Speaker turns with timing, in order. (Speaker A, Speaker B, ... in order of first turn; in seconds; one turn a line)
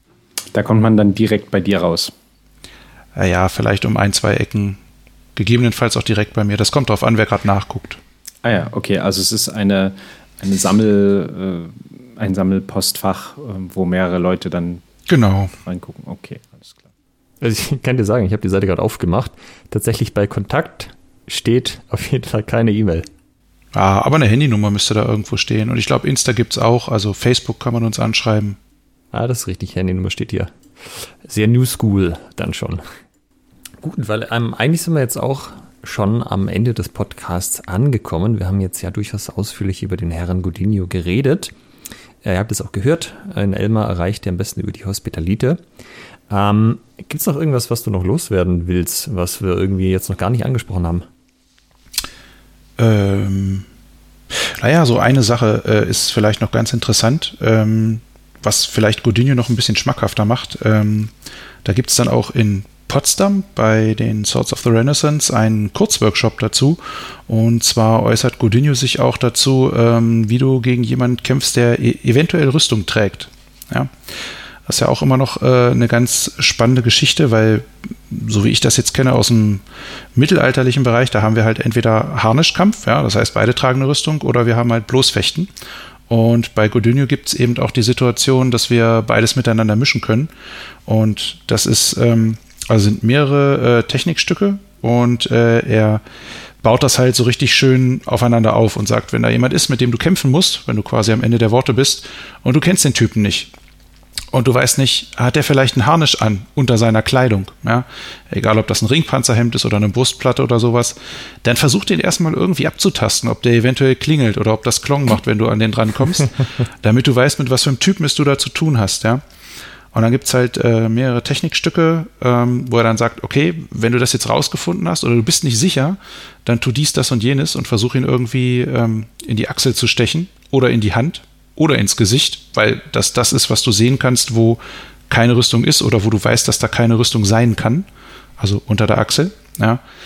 Speaker A: 0.5-2.1
Speaker B: 3.1-4.8
Speaker B: 5.4-8.0
Speaker A: 8.4-14.8
Speaker B: 15.1-15.5
Speaker A: 15.6-16.9
Speaker C: 17.4-23.1
Speaker B: 23.7-28.6
Speaker C: 29.1-30.5
Speaker C: 31.2-32.8
Speaker C: 33.8-41.5
Speaker C: 42.2-45.6
Speaker C: 46.3-51.1
Speaker B: 52.8-53.7
Speaker B: 54.4-61.1
Speaker B: 61.6-73.9
Speaker B: 74.7-79.6
Speaker B: 80.2-85.5
Speaker B: 86.1-90.3
Speaker B: 90.9-96.0
Speaker B: 96.6-103.5
Speaker B: 104.3-119.2
Speaker B: 119.9-137.9
Speaker B: 138.4-139.8